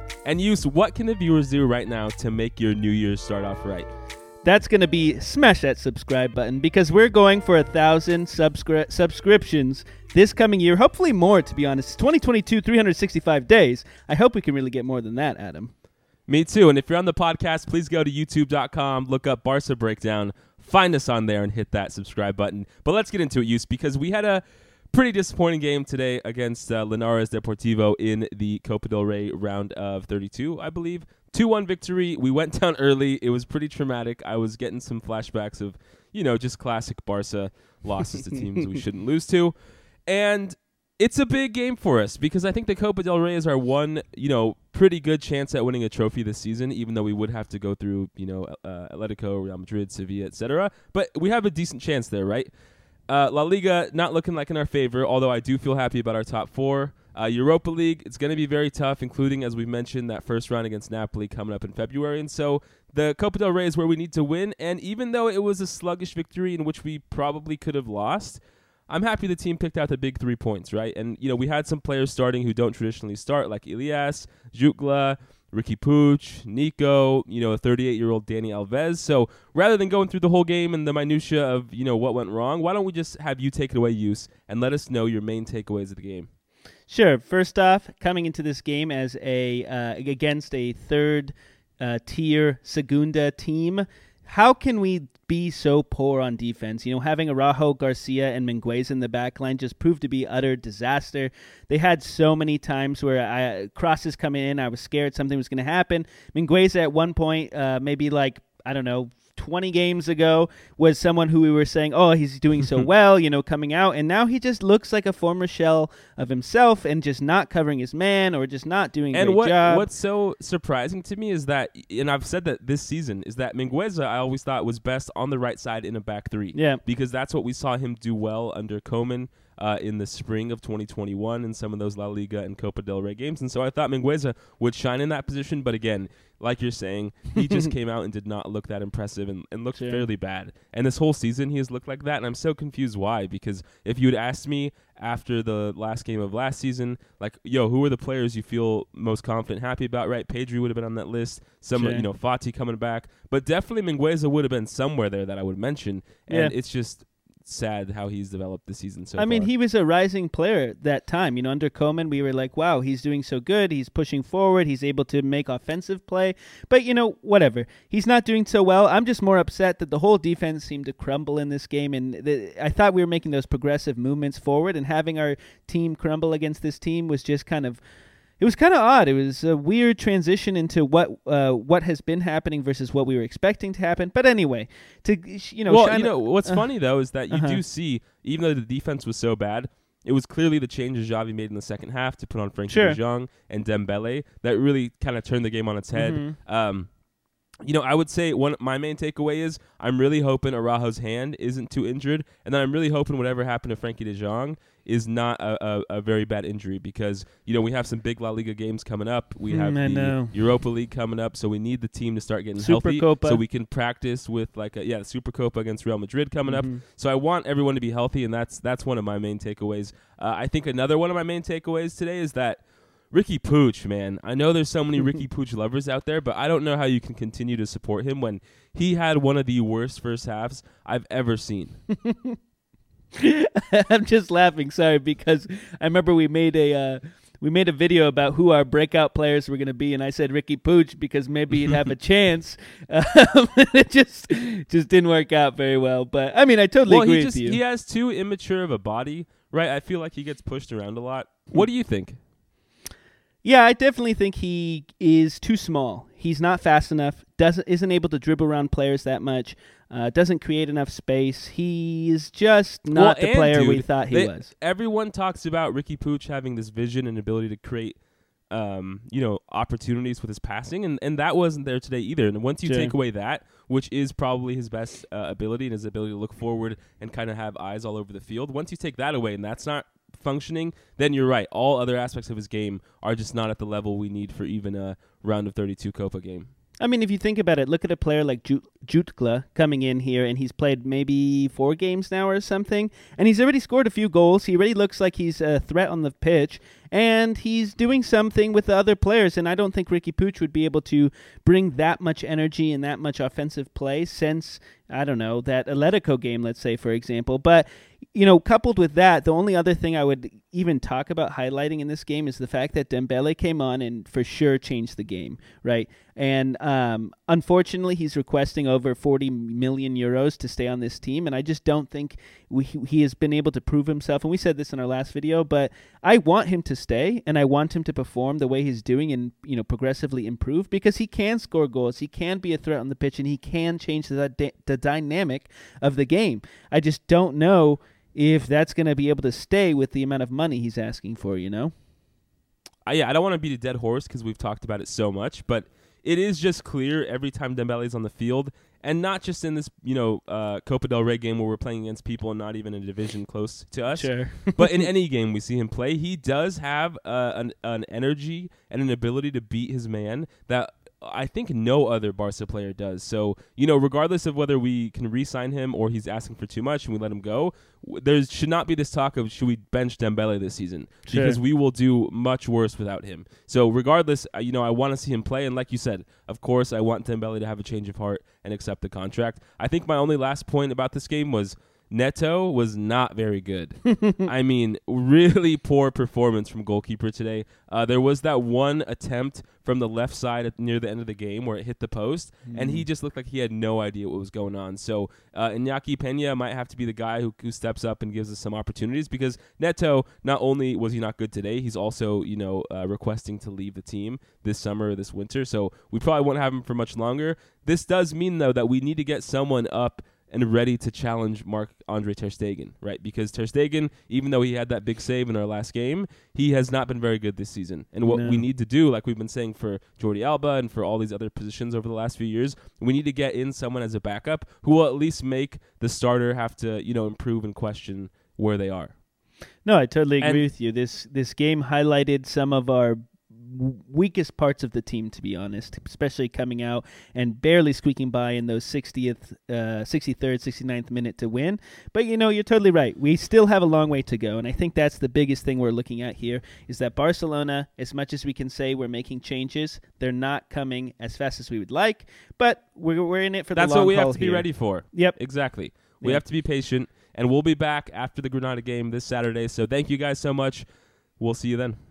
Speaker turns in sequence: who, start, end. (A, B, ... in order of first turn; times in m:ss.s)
0:00.2-0:03.9 A
0:04.4-0:15.7 B
0:16.3-0:39.5 A
0:40.1-0:52.5 A
0:53.1-1:26.3 A
1:26.9-1:59.9 B
1:59.1-2:39.5 A
2:06.5-2:06.8 B
2:19.7-2:20.0 B
2:31.7-2:32.0 B
2:36.3-2:36.5 B
2:39.2-2:57.8 B
2:58.4-3:06.7 B
3:05.7-3:16.9 A
3:07.3-3:07.6 B
3:12.7-3:13.0 B
3:15.9-3:16.4 B
3:17.6-3:51.8 A
3:29.5-3:30.4 B
3:32.6-3:33.4 B
3:36.5-3:36.8 B
3:52.0-3:52.4 B
3:53.1-4:07.6 B
4:06.9-4:12.2 A
4:13.4-4:24.5 B
4:22.9-4:28.0 A
4:28.5-4:46.5 A
4:32.6-4:32.9 B
4:46.8-5:41.7 B
5:42.8-7:08.9 A
5:53.9-5:54.8 B
6:11.1-6:11.4 B
6:32.4-6:32.8 B
6:58.0-6:58.4 B
7:09.6-7:35.2 B
7:33.5-7:40.6 A
7:41.2-7:41.8 A